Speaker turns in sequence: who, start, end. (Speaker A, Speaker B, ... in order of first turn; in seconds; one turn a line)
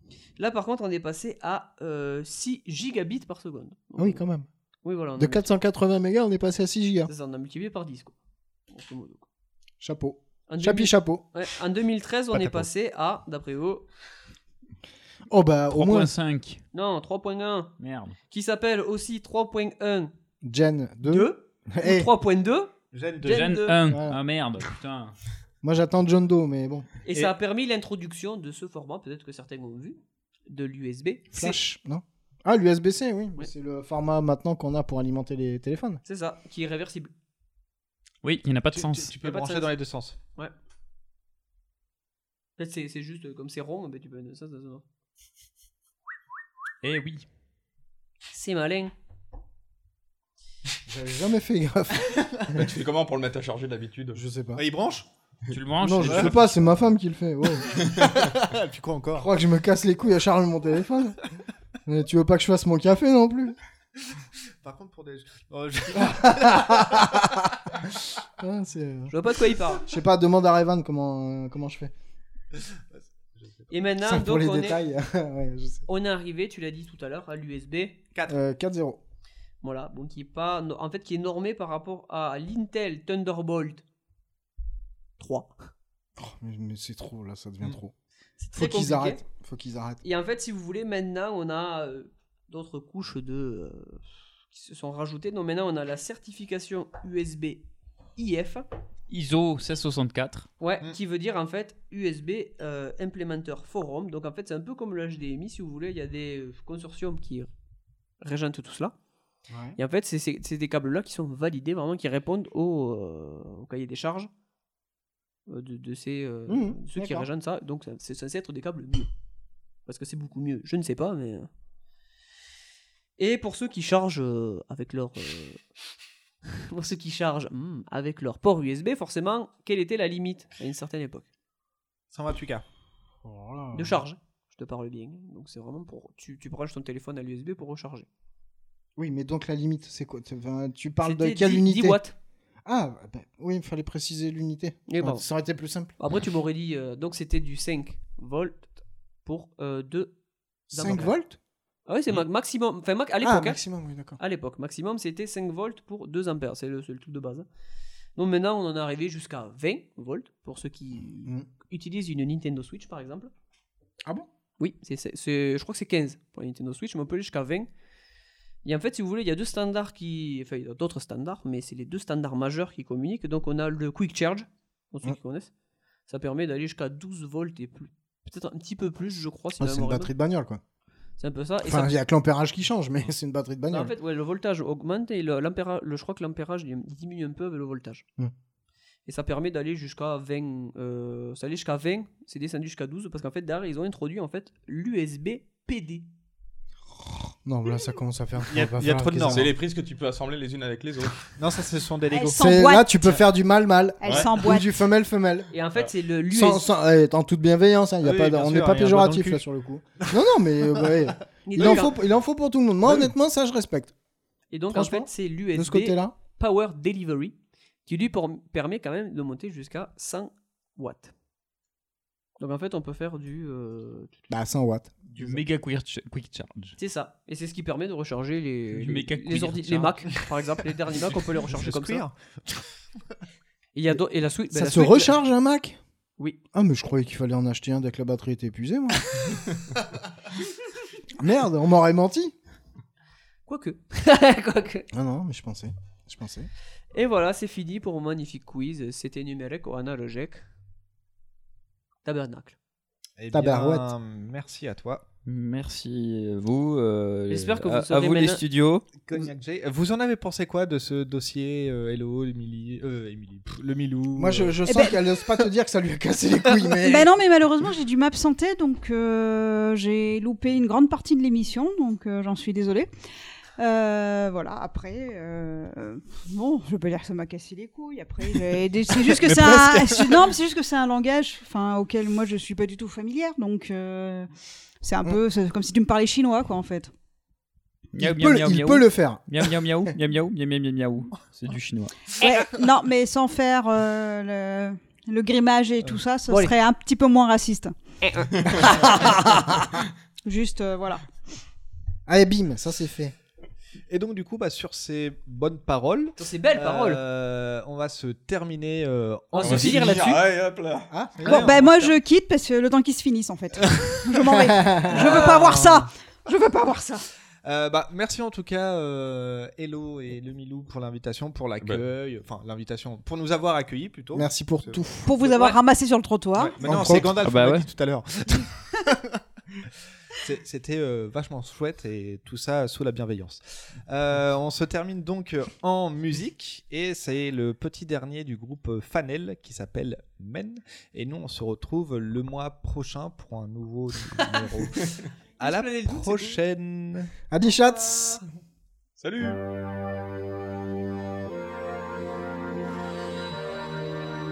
Speaker A: 0.4-4.2
Speaker B: 4.0-4.5
Speaker A: 4.8-5.4
Speaker B: 5.2-7.1
Speaker A: 7.1-8.2
Speaker A: 8.7-9.2
Speaker B: 9.8-11.2
Speaker A: 10.5-13.9
Speaker C: 12.3-12.7
Speaker B: 15.3-16.1
Speaker D: 15.7-16.6
Speaker A: 16.7-17.8
Speaker D: 17.8-18.1
Speaker A: 18.3-20.1
Speaker B: 20.4-22.1
Speaker A: 21.0-23.8
Speaker C: 22.9-23.4
Speaker D: 23.2-25.1
Speaker B: 23.9-24.2
Speaker B: 25.6-26.9
Speaker A: 27.1-30.0
Speaker A: 30.5-31.6
Speaker B: 31.3-36.0
Speaker A: 36.0-37.1
Speaker D: 38.2-39.1
Speaker C: 38.7-40.2
Speaker A: 39.2-39.7
Speaker A: 42.6-44.8
Speaker D: 46.8-47.2
Speaker A: 48.3-48.9
Speaker B: 50.9-52.6
Speaker E: 52.5-54.2
Speaker B: 54.1-54.6
Speaker C: 54.6-55.1
Speaker D: 55.5-56.8
Speaker B: 55.8-57.7
Speaker C: 56.0-56.3
Speaker E: 57.8-58.1
Speaker C: 58.4-59.3
Speaker B: 59.2-61.2
Speaker B: 61.9-63.6
Speaker C: 64.6-67.2
Speaker B: 65.9-67.5
Speaker B: 68.4-69.1
Speaker A: 69.1-69.8
Speaker B: 69.9-71.9
Speaker C: 72.6-73.7
Speaker A: 73.7-74.8
Speaker B: 74.0-75.8
Speaker A: 75.9-78.0
Speaker B: 78.3-79.0
Speaker A: 79.6-83.8
Speaker A: 85.2-85.7
Speaker B: 86.2-87.9
Speaker A: 88.4-89.2
Speaker B: 88.5-90.0
Speaker A: 90.0-98.7
Speaker D: 99.1-100.5
Speaker A: 100.6-107.5
Speaker A: 108.2-108.9
Speaker B: 109.5-109.8
Speaker A: 109.8-114.3
Speaker A: 115.5-119.1
Speaker B: 116.5-117.3
Speaker A: 119.9-121.5
Speaker A: 123.2-125.6
Speaker A: 126.5-131.3
Speaker C: 132.1-132.6
Speaker B: 133.2-134.0
Speaker A: 133.7-138.1
Speaker B: 139.0-142.0
Speaker A: 141.0-142.2
Speaker B: 142.7-145.9
Speaker A: 144.9-145.2
Speaker A: 146.0-148.7
Speaker A: 149.2-150.1
Speaker A: 150.7-151.1
Speaker B: 150.7-151.4
Speaker A: 151.9-153.6
Speaker B: 153.2-154.2
Speaker A: 154.2-157.5
Speaker A: 158.2-163.3
Speaker A: 164.6-167.7
Speaker A: 168.6-175.5
Speaker A: 176.1-180.1
Speaker B: 179.6-180.6
Speaker A: 181.2-182.0
Speaker B: 181.6-183.9
Speaker A: 183.7-188.1
Speaker A: 189.1-196.1
Speaker B: 197.4-199.5
Speaker C: 198.5-199.6
Speaker E: 199.3-201.3
Speaker C: 201.4-202.4
Speaker F: 202.1-203.1
Speaker B: 202.4-205.5
Speaker F: 204.0-204.7
Speaker E: 204.0-204.3
Speaker A: 205.5-206.7
Speaker B: 206.3-213.9
Speaker C: 208.0-209.4
Speaker A: 211.5-212.0
Speaker A: 214.5-217.3
Speaker B: 214.7-216.1
Speaker A: 217.9-221.1
Speaker A: 222.4-224.3
Speaker B: 224.3-225.4
Speaker D: 225.1-226.8
Speaker A: 226.8-232.1
Speaker D: 228.8-230.0
Speaker C: 230.9-232.7
Speaker A: 233.7-235.2
Speaker B: 234.5-235.8
Speaker B: 236.5-239.2
Speaker B: 241.2-242.3
Speaker A: 243.5-244.9
Speaker B: 244.9-246.5
Speaker A: 246.9-250.4
Speaker A: 252.1-252.6
Speaker C: 253.2-255.1
Speaker B: 253.3-253.9
Speaker D: 255.3-258.9
Speaker A: 257.3-258.4
Speaker C: 259.0-264.6
Speaker B: 264.2-267.1
Speaker F: 264.7-265.0
Speaker F: 266.8-272.9
Speaker F: 273.6-284.3
Speaker C: 279.0-280.3
Speaker F: 284.8-286.9
Speaker D: 287.9-291.9
Speaker B: 288.0-289.2
Speaker F: 292.2-297.8
Speaker A: 296.3-296.5
Speaker A: 298.0-298.5
Speaker F: 298.5-299.6
Speaker F: 300.2-301.1
Speaker B: 302.1-303.1
Speaker C: 303.9-310.1
Speaker A: 306.2-307.0
Speaker A: 309.3-310.3
Speaker E: 309.4-310.9
Speaker B: 310.9-311.4
Speaker C: 311.2-311.9
Speaker F: 311.3-317.1
Speaker C: 313.6-313.9
Speaker B: 314.4-315.0
Speaker C: 315.0-315.9
Speaker A: 315.1-315.5
Speaker C: 317.4-325.6
Speaker B: 324.1-325.1
Speaker F: 325.0-326.6
Speaker C: 326.4-329.2
Speaker B: 326.6-327.1
Speaker D: 327.2-327.7
Speaker C: 330.2-344.9
Speaker A: 344.1-344.9
Speaker C: 345.4-347.1
Speaker A: 345.4-346.4
Speaker B: 347.3-348.2
Speaker A: 347.7-348.2
Speaker E: 349.0-349.4